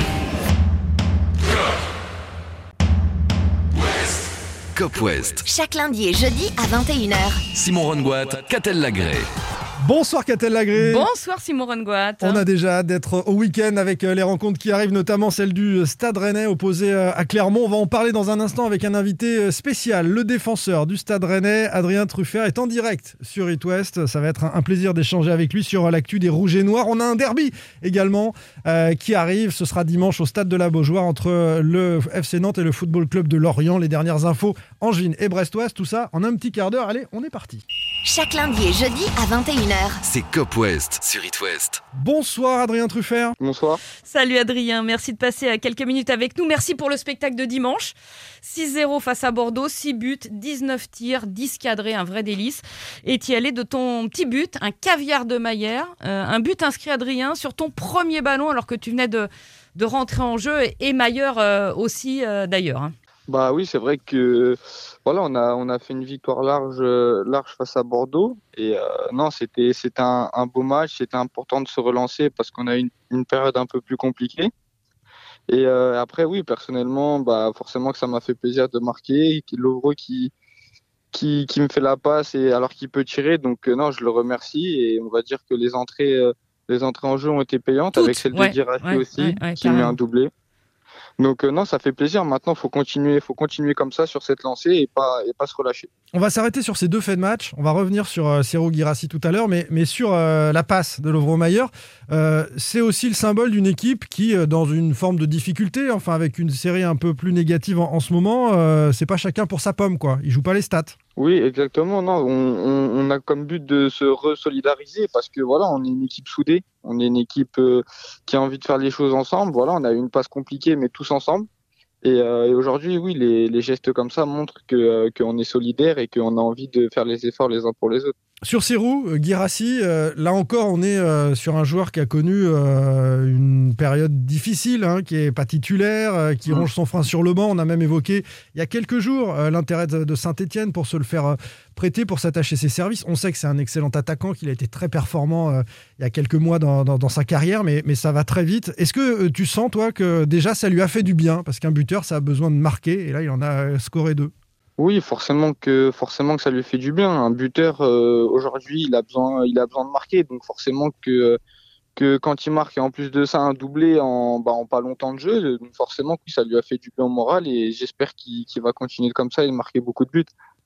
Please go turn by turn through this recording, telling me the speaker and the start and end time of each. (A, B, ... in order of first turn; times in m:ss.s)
0:04.8-0:05.5 A
0:05.4-0:07.4 B
0:07.5-0:09.3 A
0:09.8-0:11.1 C
0:10.7-0:12.4 D
0:12.2-0:37.6 C
0:38.0-0:40.0 B
0:40.0-0:41.8 A
0:42.0-0:43.3 C
0:43.4-0:43.8 E
0:44.0-1:02.9 D
1:03.3-1:14.5 E
1:15.5-1:20.3 E
1:21.1-1:30.3 E
1:27.9-1:30.0 D
1:31.2-1:35.9 E
1:36.1-1:50.9 C
1:51.2-2:01.5 E
2:02.0-2:08.1 E
2:08.5-2:34.3 C
2:34.8-2:41.4 E
2:42.0-2:50.3 E